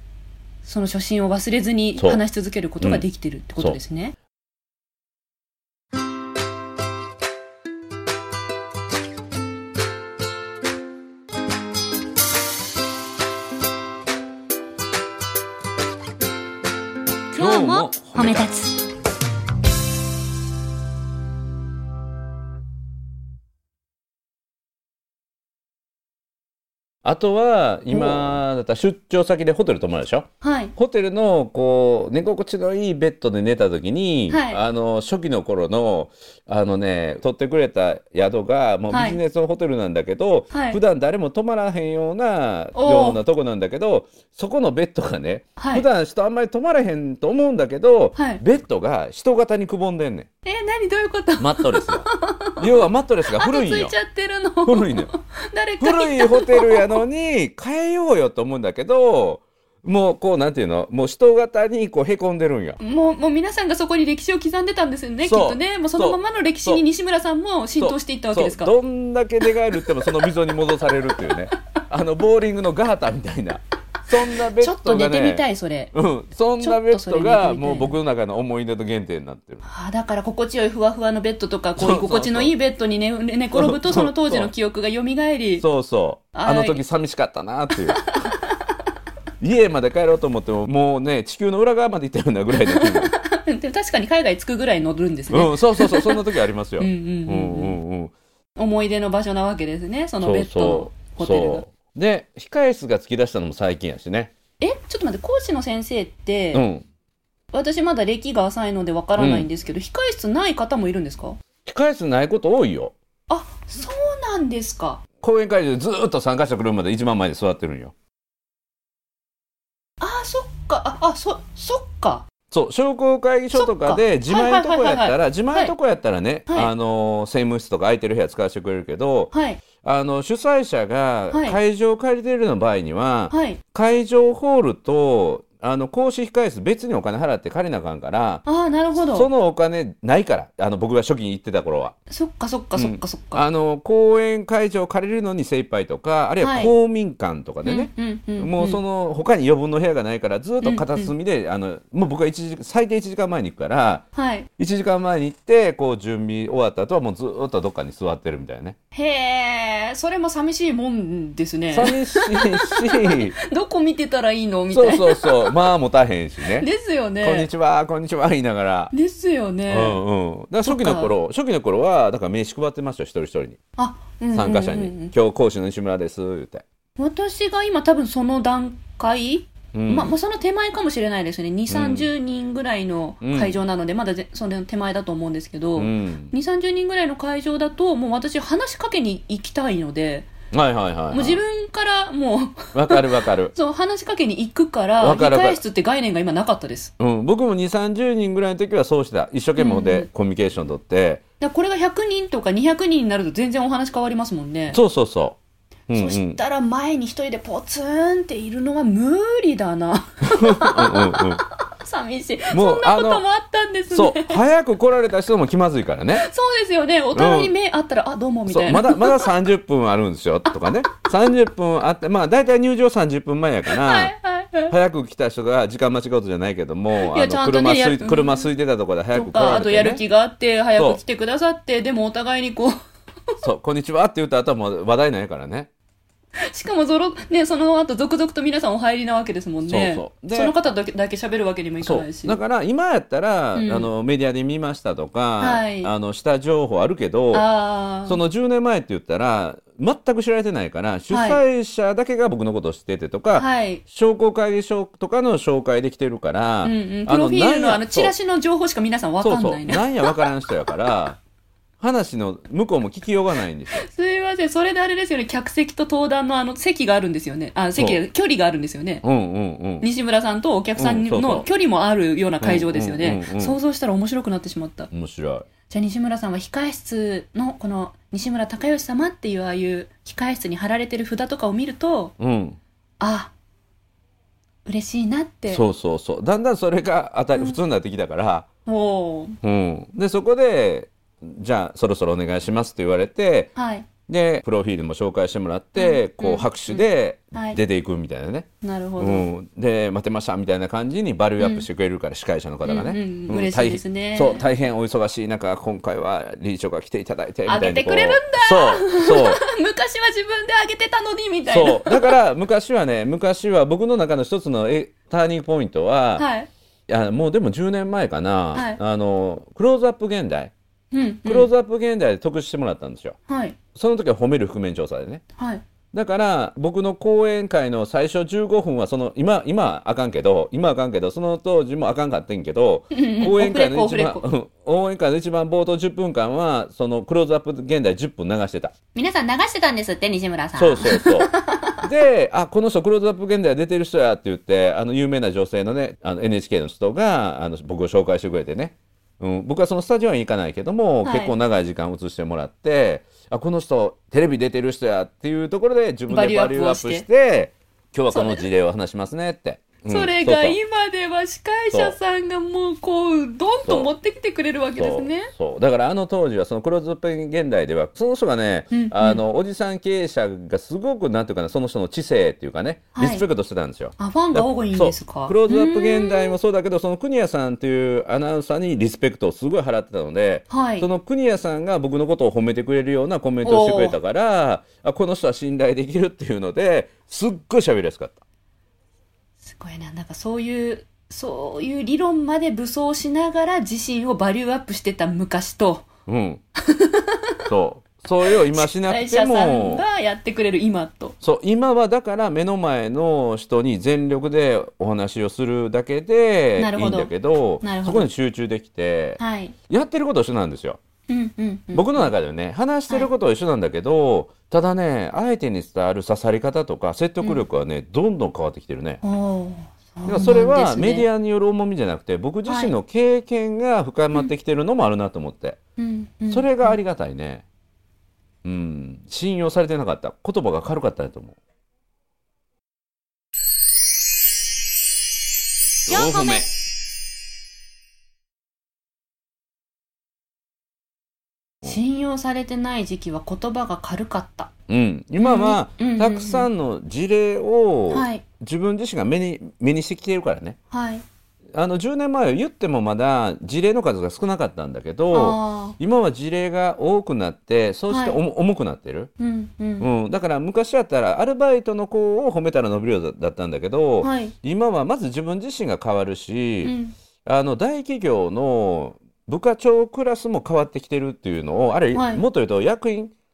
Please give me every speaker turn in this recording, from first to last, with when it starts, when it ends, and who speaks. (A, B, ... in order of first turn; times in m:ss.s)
0:00.6-0:04.2 A
0:02.0-0:02.2 B
0:17.3-0:18.8 A
0:17.4-0:18.5 B
0:27.0-0:50.3 B
0:27.9-0:28.4 A
0:30.4-0:30.7 A
0:34.3-0:34.6 A
0:38.9-0:39.2 A
0:40.5-0:40.8 A
0:42.8-0:43.2 A
0:45.6-0:45.9 A
0:48.2-0:48.4 A
0:50.4-0:57.0 A
0:51.4-0:53.9 B
0:54.6-0:55.1 B
0:55.8-1:02.8 B
1:02.8-1:08.7 A
1:05.2-1:06.8 B
1:07.8-1:19.6 B
1:09.9-1:10.3 A
1:14.4-1:15.9 A
1:16.6-1:18.0 A
1:19.6-1:25.6 A
1:21.8-1:22.5 B
1:23.5-1:24.5 B
1:25.6-1:28.4 B
1:26.3-1:26.8 A
1:27.7-1:28.8 A
1:29.4-1:33.1 B
1:32.6-1:36.2 A
1:35.3-1:38.1 B
1:36.8-1:37.8 A
1:38.6-1:41.6 A
1:40.2-1:44.3 B
1:44.6-1:46.6 A
1:46.5-1:46.8 B
1:47.5-1:51.4 A
1:49.2-1:49.5 B
1:51.6-1:52.9 B
1:53.3-1:55.0 A
1:55.2-1:57.9 B
2:00.0-2:02.2 A
2:02.5-2:18.4 B
2:03.5-2:05.7 A
2:09.3-2:09.6 A
2:11.3-2:11.6 A
2:13.3-2:13.6 A
2:18.5-2:19.3 A
2:19.0-2:22.0 B
2:22.1-2:23.4 A
2:22.8-2:34.0 B
2:26.4-2:26.7 A
2:27.6-2:28.8 A
2:30.6-2:31.1 A
2:34.2-2:34.5 A
2:34.6-2:38.8 B
2:38.9-2:45.6 A
2:41.7-2:43.4 B
2:44.7-2:46.7 B
2:46.4-2:47.5 A
2:47.2-2:48.9 B
2:48.9-2:50.0 A
2:49.7-2:53.6 B
2:50.6-2:51.1 A
2:53.8-2:55.1 A
2:54.3-2:56.6 B
2:57.0-3:10.3 A
2:59.7-3:00.1 B
3:01.7-3:02.1 B
3:03.2-3:03.6 B
3:05.8-3:06.3 B
3:10.5-3:11.4 B
3:11.1-3:16.9 A
3:12.7-3:13.5 B
3:15.0-3:15.6 B
3:17.0-3:21.2 B
3:19.6-3:20.1 A
3:21.4-3:24.8 A
3:24.7-3:25.4 B
3:25.9-3:26.4 B
3:25.9-3:34.4 A
3:30.2-3:31.4 B
3:32.5-3:33.2 B
3:33.9-3:36.3 B
3:36.2-3:39.3 A
3:37.1-3:37.5 B
3:38.5-3:44.1 B
3:40.5-3:41.3 A
3:43.7-3:44.7 A
3:44.7-3:50.0 B
3:47.0-3:48.5 A
3:49.1-3:52.8 A
3:53.4-3:55.7 B
3:56.4-4:02.4 A
3:59.7-4:00.5 B
4:01.8-4:07.5 B
4:03.6-4:03.9 A
4:05.4-4:05.9 A
4:07.3-4:08.2 A
4:08.0-4:18.1 B
4:11.1-4:11.4 A
4:13.4-4:13.8 A
4:16.6-4:20.3 A
4:19.2-4:21.2 B
4:21.8-4:23.9 B
4:23.7-4:29.0 A
4:29.0-4:29.9 B
4:29.8-4:34.9 A
4:30.8-4:31.5 B
4:32.4-4:33.6 B
4:34.9-4:35.5 B
4:35.7-4:42.1 A
4:42.2-4:42.6 B
4:43.0-4:43.3 A
4:44.6-4:45.6 A
4:45.5-4:48.5 B
4:48.7-4:49.4 A
4:49.4-4:53.5 B
4:53.6-4:53.9 A
4:54.1-4:58.5 B
4:55.8-4:57.6 A
4:58.6-4:59.3 A
4:59.0-5:09.4 B
5:01.4-5:01.7 A
5:02.6-5:04.5 A
5:07.5-5:12.2 A
5:11.5-5:16.3 B
5:16.2-5:16.5 A
5:16.9-5:20.5 B
5:18.6-5:18.8 A
5:20.9-5:21.5 A
5:21.3-5:23.2 B
5:23.3-5:23.6 A
5:23.8-5:25.2 B
5:25.4-5:25.6 A
5:25.9-5:38.7 B
5:32.9-5:34.2 A
5:39.0-5:41.8 A
5:40.6-6:00.6 B
5:51.0-5:51.4 A
5:56.1-5:57.1 A
5:58.1-5:58.5 A
5:59.9-6:05.3 A
6:01.7-6:02.0 B
6:03.6-6:03.9 B
6:04.8-6:28.2 B
6:08.7-6:09.2 A
6:13.0-6:13.3 A
6:14.0-6:16.4 A
6:20.5-6:20.9 A
6:23.4-6:24.0 A
6:29.4-6:35.9 A
6:36.1-6:36.4 B
6:36.6-6:37.4 A
6:37.5-6:39.8 B
6:38.3-6:41.2 A
6:41.2-6:50.8 B
6:46.6-6:48.1 A
6:49.2-6:49.6 A
6:51.1-6:52.1 A
6:51.7-6:59.0 B
6:59.0-7:01.1 A
7:00.0-7:05.6 B
7:02.5-7:02.7 A
7:05.8-7:06.8 A
7:06.3-7:07.4 B
7:08.4-7:11.4 B
7:15.9-7:16.5 B
7:15.9-7:16.5 A
7:21.6-7:24.5 A
7:24.7-7:30.6 B
7:25.2-7:26.5 A
7:27.9-7:28.2 A
7:30.7-7:31.0 A
7:31.5-7:39.1 B
7:35.1-7:35.8 A
7:37.9-7:38.2 A
7:39.2-7:39.9 A
7:39.8-7:53.1 B
7:44.0-7:44.4 A
7:46.6-7:46.9 A
7:51.9-7:52.2 A